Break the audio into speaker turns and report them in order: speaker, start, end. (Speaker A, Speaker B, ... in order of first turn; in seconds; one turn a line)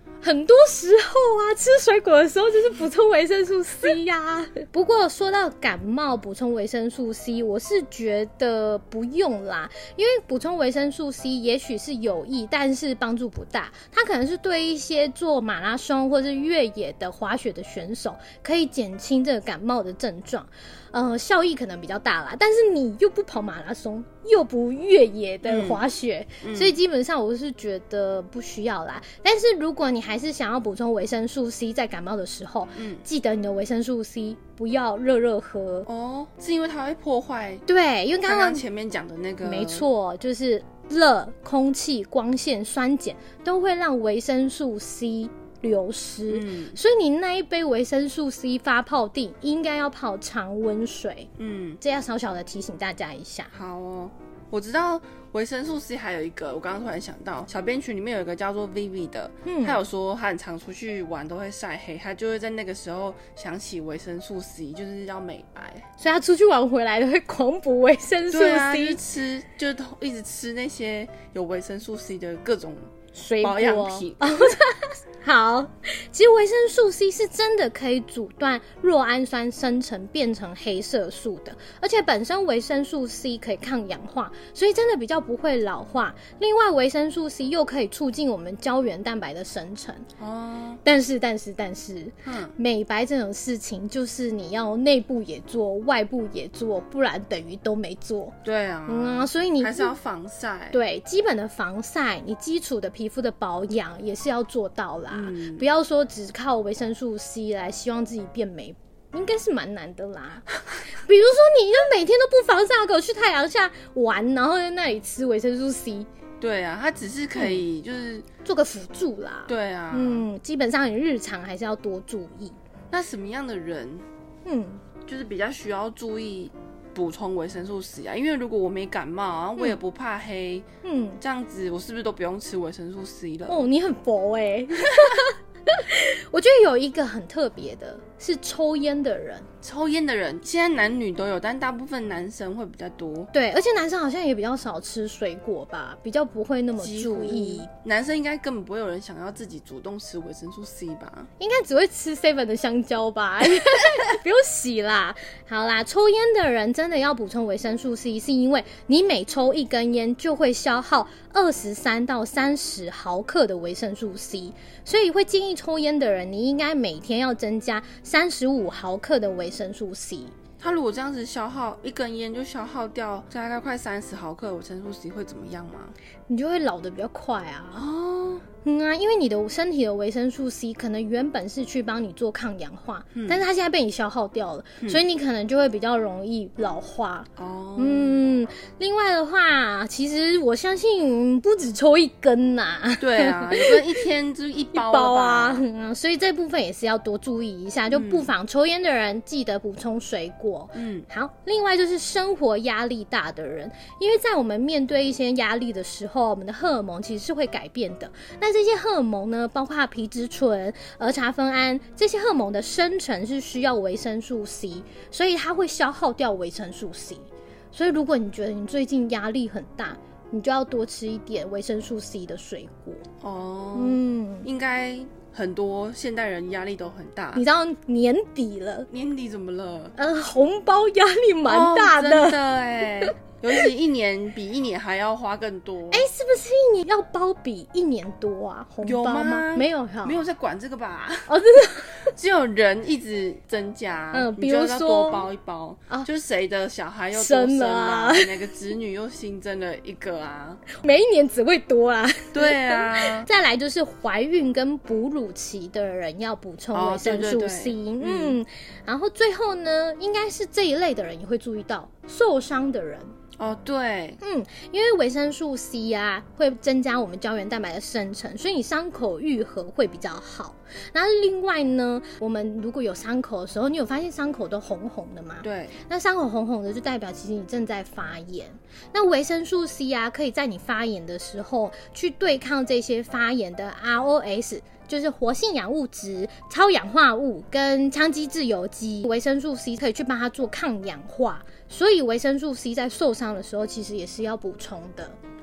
Speaker A: 0.2-35.9
Speaker B: 25.4-25.8
Speaker B: 26.4-26.8
Speaker B: 32.8-33.0
Speaker B: 35.9-37.6
Speaker A: 37.7-38.6
Speaker B: 38.2-39.9
Speaker A: 39.4-51.3
Speaker B: 46.3-46.8
Speaker B: 51.4-51.8
Speaker A: 51.8-53.5
Speaker B: 53.5-65.8
Speaker A: 59.5-59.8
Speaker A: 66.0-69.0
Speaker B: 68.3-72.9
Speaker A: 73.1-90.1
Speaker B: 73.4-74.5
Speaker B: 90.2-90.8
Speaker A: 90.8-98.4
Speaker B: 92.2-92.5
Speaker B: 98.4-100.8
Speaker A: 98.9-100.0
Speaker A: 100.7-116.1
Speaker B: 105.1-105.7
Speaker B: 116.4-118.3
Speaker A: 117.4-117.6
Speaker A: 118.5-122.6
Speaker B: 119.5-120.2
Speaker B: 122.9-124.1
Speaker A: 124.5-124.8
Speaker B: 125.1-130.7
Speaker A: 130.8-131.2
Speaker B: 131.2-133.6
Speaker A: 133.5-139.5
Speaker B: 139.6-143.3
Speaker A: 143.3-147.7
Speaker B: 146.8-151.3
Speaker A: 151.4-170.3
Speaker B: 170.6-175.9
Speaker A: 176.3-177.8
Speaker B: 177.8-178.4
Speaker A: 178.6-194.0
Speaker B: 183.2-183.4
Speaker B: 187.4-188.2
Speaker B: 193.0-195.7
Speaker A: 194.7-223.1
Speaker B: 197.9-198.3
Speaker B: 200.8-201.1
Speaker B: 223.2-227.4
Speaker A: 223.7-224.5
Speaker A: 227.3-228.9
Speaker B: 228.9-229.9
Speaker A: 230.0-232.4
Speaker B: 231.5-236.1
Speaker A: 233.0-233.6
Speaker A: 235.9-240.2
Speaker B: 238.8-241.3
Speaker A: 241.3-242.1
Speaker B: 242.1-250.6
Speaker A: 244.1-245.2
Speaker A: 247.1-248.3
Speaker A: 250.7-263.1
Speaker B: 252.3-253.3
Speaker B: 256.7-258.4
Speaker B: 263.4-264.2
Speaker A: 264.2-295.2
Speaker B: 275.4-275.8